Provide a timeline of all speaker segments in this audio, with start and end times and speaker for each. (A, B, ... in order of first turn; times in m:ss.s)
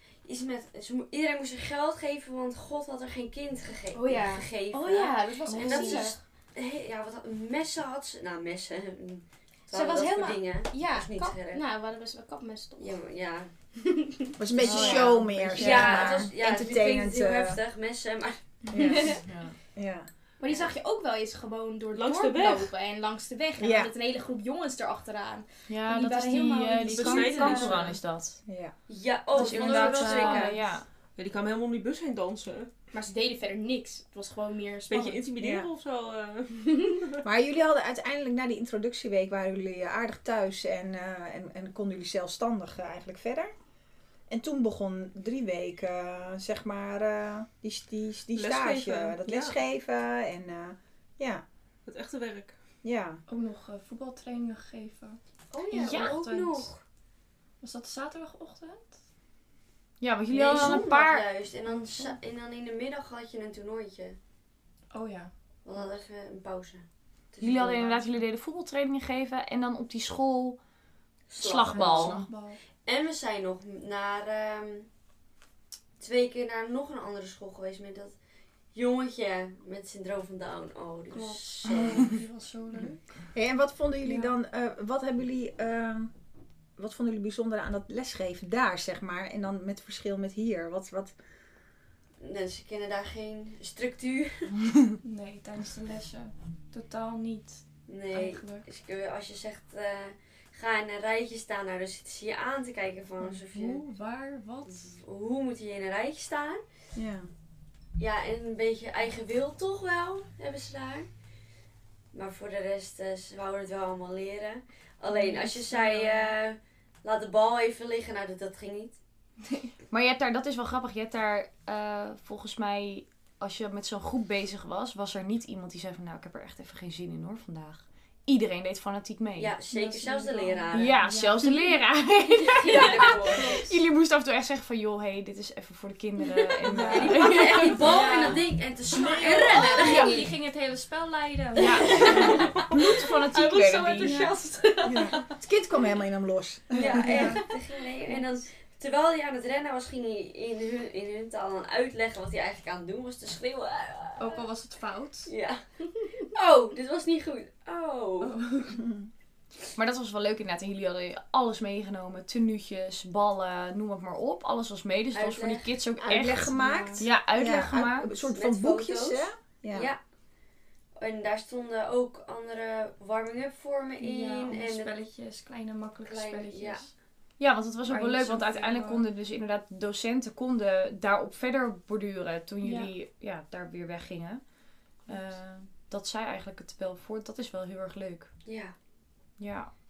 0:00.2-0:11.6 A
0:03.9-0:06.2 B
0:05.4-0:06.1 C
0:09.7-0:13.0 B
0:12.8-0:13.5 A
0:13.8-0:14.4 B
0:14.4-0:17.6 D
0:14.6-0:16.3 E
0:14.7-0:15.8 C
0:15.6-0:18.4 A
0:18.7-0:19.2 B
0:18.7-0:19.2 D
0:19.2-0:19.6 E
0:19.7-0:20.1 D
0:20.4-0:27.9 B
0:20.4-0:20.7 A
0:21.9-0:22.7 F
0:23.6-0:23.9 D
0:25.7-0:28.4 E
0:26.9-0:28.0 F
0:28.4-0:28.7 D
0:28.9-0:30.6 A
0:29.3-0:30.8 E
0:29.4-0:30.5 F
0:31.2-0:32.7 F
0:32.9-0:35.3 B
0:34.9-0:37.2 F
0:35.4-0:35.7 D
0:37.2-0:43.5 D
0:44.3-0:51.4 D
0:48.3-0:49.6 F
0:51.9-0:52.6 F
0:52.8-0:53.2 D
0:53.3-0:55.2 C
0:55.5-0:56.8 A
0:55.7-0:56.2 E
0:55.7-0:56.7 C
0:57.6-0:58.9 C
1:00.0-1:01.2 E
1:00.3-1:04.2 A
1:01.6-1:02.2 C
1:04.9-1:05.3 C
1:05.6-1:08.0 A
1:07.4-1:10.6 E
1:11.3-1:12.3 A
1:11.4-1:12.3 E
1:11.7-1:12.6 C
1:12.8-1:14.9 A
1:16.0-1:18.1 A
1:18.7-1:22.1 A
1:21.1-1:23.0 C
1:23.3-1:26.1 D
1:24.0-1:24.3 C
1:26.8-1:31.1 D
1:32.2-1:34.6 A
1:35.0-1:38.6 C
1:37.9-1:43.8 A
1:43.2-1:44.9 C
1:44.7-1:46.6 A
1:46.9-1:47.3 D
1:48.0-1:51.1 A
1:52.1-1:59.0 A
1:55.1-1:56.3 C
1:59.9-2:09.5 E
2:09.4-2:11.0 A
2:09.7-2:11.7 C
2:10.7-2:17.9 E
2:12.4-2:13.7 A
2:12.7-2:13.7 C
2:16.7-2:17.1 D
2:16.8-2:20.3 A
2:16.8-2:22.5 C
2:21.6-2:24.3 E
2:21.8-2:22.5 A
2:23.4-2:25.1 C
2:24.0-2:25.2 B
2:24.8-2:27.3 D
2:26.7-2:34.4 A
2:26.9-2:27.5 C
2:34.2-2:35.3 C
2:35.2-2:35.6 A
2:36.2-2:38.4 A
2:38.2-2:38.8 C
2:38.7-2:39.1 D
2:39.7-2:48.1 E
2:45.1-2:45.7 A
2:46.0-2:49.9 D
2:46.5-2:47.1 C
2:48.2-2:50.0 A
2:51.0-2:55.0 A
2:54.0-2:56.9 C
2:56.0-2:56.8 A
2:57.4-3:04.4 E
2:57.9-2:59.1 C
3:02.6-3:02.9 C
3:05.1-3:08.3 E
3:08.4-3:08.7 A
3:09.4-3:09.7 E